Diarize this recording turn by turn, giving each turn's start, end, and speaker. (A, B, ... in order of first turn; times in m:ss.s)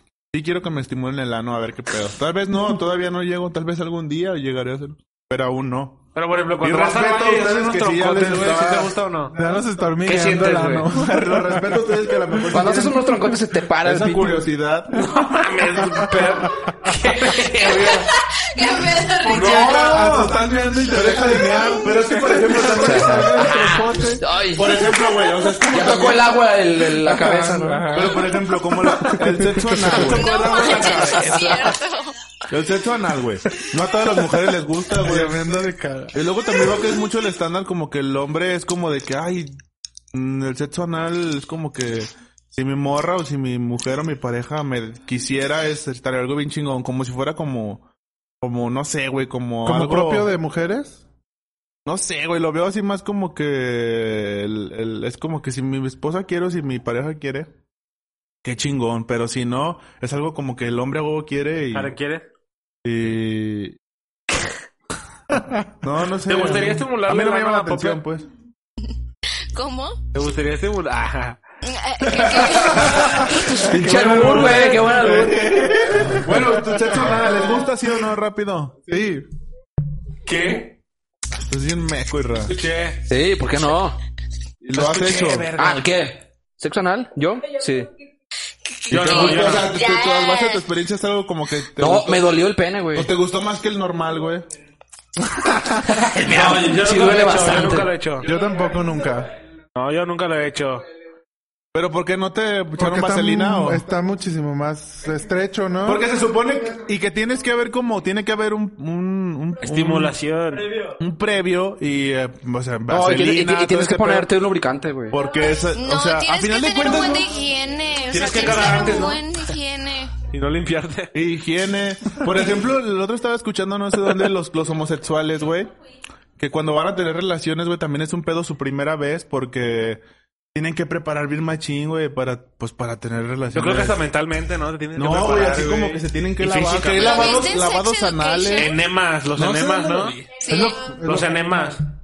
0:00.3-0:06.0 A
0:06.2-0:09.4 B
0:06.6-0:08.9 A
0:09.3-0:12.4 C
0:10.1-0:10.9 B
0:10.9-0:13.1 A
0:12.5-0:14.4 D
0:13.8-0:15.0 A
0:15.0-0:18.1 B
0:15.8-0:16.3 C
0:18.1-0:20.0 E
0:19.2-0:24.2 C
0:19.3-0:23.8 A
0:22.7-0:24.8 D
0:24.5-0:26.4 A
0:25.7-0:28.2 D
0:27.0-0:28.2 C
0:27.9-0:31.7 A
0:28.9-0:30.1 C
0:30.0-0:32.2 E
0:31.2-0:31.6 D
0:32.5-0:35.4 A
0:35.0-0:36.2 C
0:36.1-0:39.6 A
0:40.1-0:47.8 A
0:48.4-0:50.3 A
0:49.6-0:51.0 C
0:51.9-0:57.5 A
0:58.4-1:01.9 A
1:01.7-1:02.3 B
1:02.8-1:03.8 A
1:05.3-1:05.7 C
1:05.8-1:08.3 A
1:06.3-1:08.0 B
1:09.5-1:10.0 E
1:10.1-1:11.4 B
1:11.6-1:13.3 E
1:13.7-1:15.6 D
1:13.7-1:18.8 A
1:13.9-1:17.1 C
1:18.9-1:19.3 C
1:20.3-1:20.8 B
1:21.4-1:22.6 A
1:22.5-1:23.0 B
1:23.1-1:24.0 D
1:24.6-1:25.5 A
1:24.7-1:25.9 B
1:25.6-1:27.9 D
1:28.7-1:30.6 E
1:28.9-1:29.7 B
1:28.9-1:32.3 A
1:31.8-1:33.1 D
1:32.9-1:34.5 A
1:36.0-1:37.9 D
1:36.3-1:38.3 B
1:38.2-1:39.3 C
1:39.8-1:40.8 B
1:41.7-1:43.8 A
1:42.8-1:46.1 C
1:45.8-1:50.2 A
1:49.6-1:50.8 B
1:51.0-1:54.3 A
1:52.9-1:55.2 D
1:55.1-1:57.3 A
1:55.7-2:00.2 E
1:58.1-1:59.2 B
2:00.3-2:01.1 B
2:01.1-2:05.7 A
2:06.4-2:10.0 A
2:10.5-2:14.0 A
2:13.5-2:17.5 B
2:15.0-2:18.7 A
2:16.9-2:18.8 E
2:18.6-2:20.2 B
2:19.4-2:20.2 A
2:20.4-2:20.9 E
2:20.5-2:21.3 C
2:21.0-2:21.8 B